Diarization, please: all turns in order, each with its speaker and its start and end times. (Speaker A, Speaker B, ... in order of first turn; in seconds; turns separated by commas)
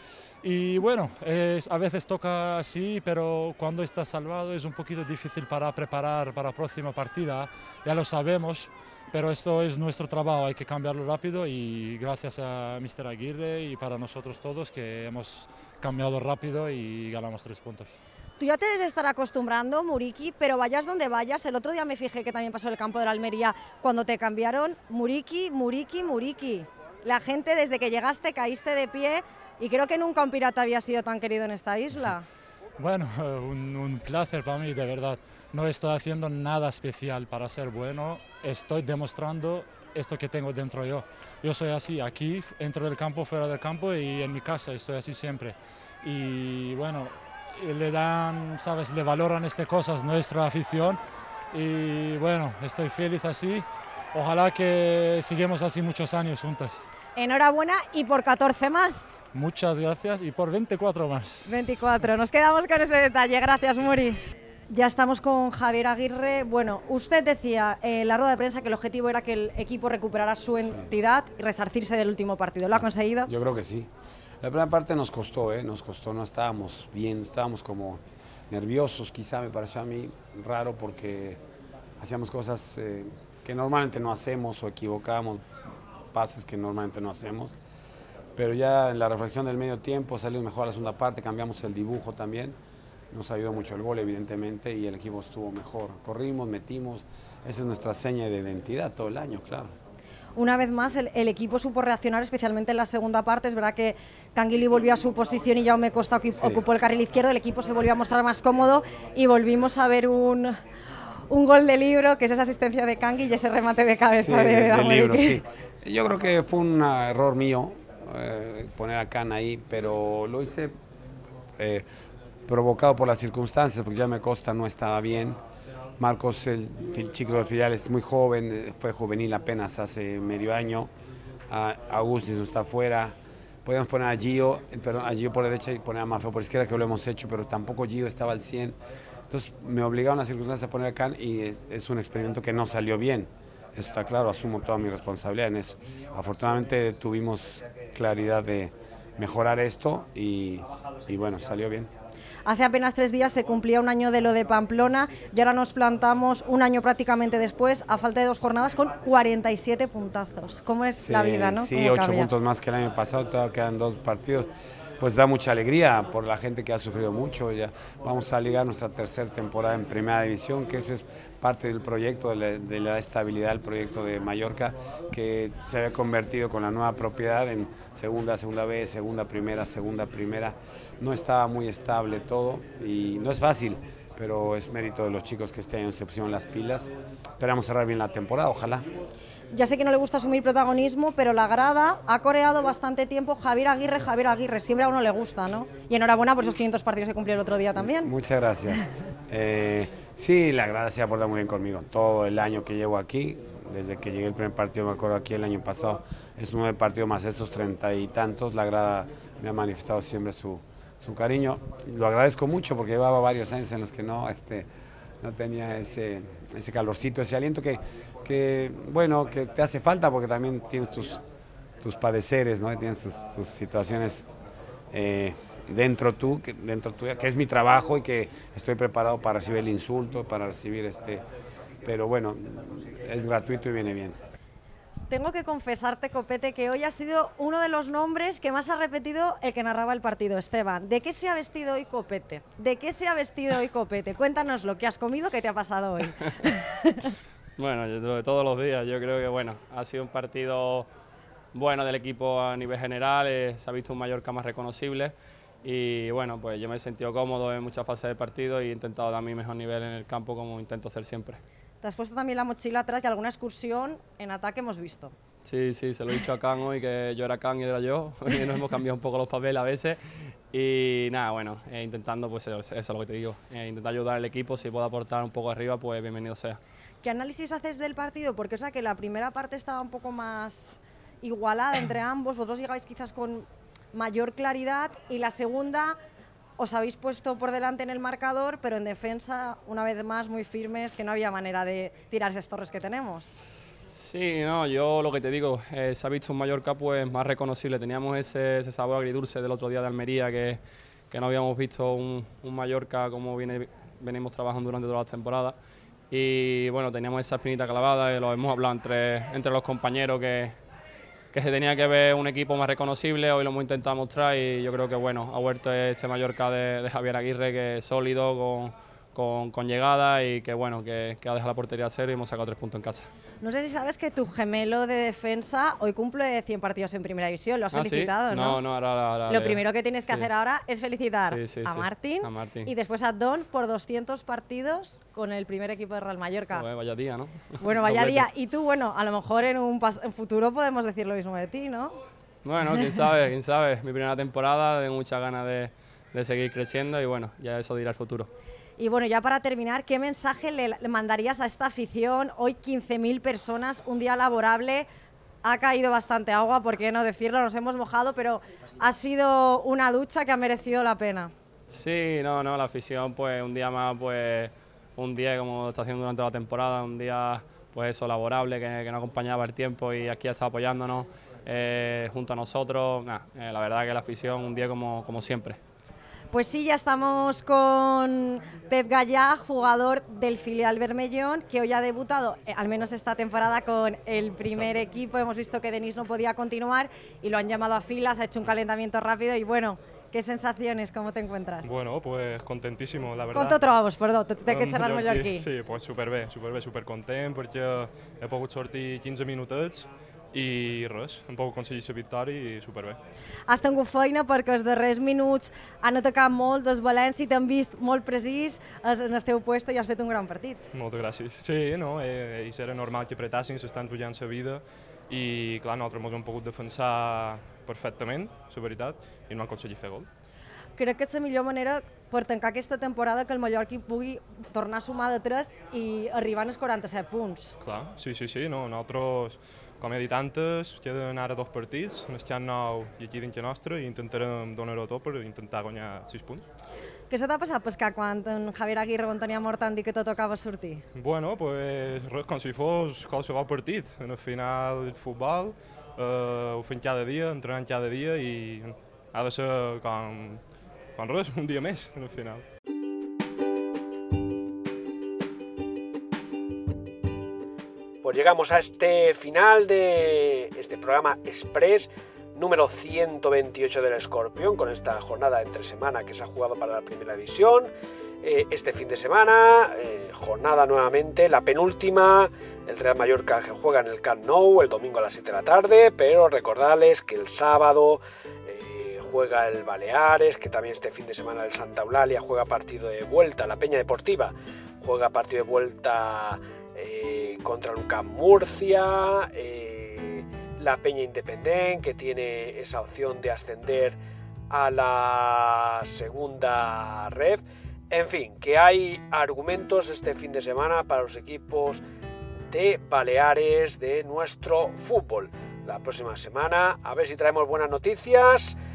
Speaker A: 0.4-17.9, Speaker B: 18.4-32.2, Speaker A: 32.8-51.0, Speaker A: 51.5-56.8, Speaker B: 57.2-59.2, Speaker A: 59.3-61.4, Speaker B: 61.5-64.2, Speaker B: 64.7-73.3, Speaker C: 70.6-70.9, Speaker C: 72.7-73.9, Speaker C: 74.4-81.4, Speaker C: 82.0-85.5, Speaker C: 86.1-87.5, Speaker C: 88.3-92.6, Speaker C: 93.1-99.7, Speaker B: 100.4-110.6, Speaker B: 111.3-115.4, Speaker C: 114.0-120.8, Speaker C: 121.6-121.8, Speaker C: 122.5-125.4, Speaker C: 126.0-130.9, Speaker C: 131.5-138.8, Speaker C: 139.3-151.9, Speaker B: 152.5-162.3, Speaker C: 161.0-188.9, Speaker B: 189.5-198.1, Speaker C: 197.8-214.7, Speaker C: 215.2-221.2, Speaker C: 221.8-224.3, Speaker C: 224.9-231.2, Speaker C: 231.8-234.2, Speaker B: 235.1-247.1, Speaker D: 247.6-250.9, Speaker D: 251.5-261.4, Speaker B: 261.8-265.1, Speaker D: 265.4-270.0, Speaker D: 270.5-276.6, Speaker B: 277.0-286.0, Speaker B: 286.6-293.4, Speaker D: 294.0-305.6, Speaker D: 306.1-310.6, Speaker D: 311.3-323.1, Speaker B: 323.4-328.6, Speaker D: 327.7-330.3, Speaker B: 329.3-336.7, Speaker D: 331.3-332.7, Speaker D: 336.6-338.3, Speaker B: 337.6-341.9, Speaker D: 342.4-348.3, Speaker B: 348.8-354.9, Speaker B: 355.4-361.3, Speaker D: 361.7-375.6, Speaker B: 376.3-391.7, Speaker E: 391.6-393.6, Speaker B: 393.3-395.5, Speaker E: 394.4-403.0, Speaker B: 403.5-410.7, Speaker E: 410.7-420.1, Speaker B: 420.8-427.6, Speaker E: 427.6-436.4, Speaker B: 437.1-440.8, Speaker E: 440.9-452.4, Speaker F: 458.0-467.7, Speaker F: 468.2-494.0, Speaker F: 494.5-501.8, Speaker F: 502.5-508.6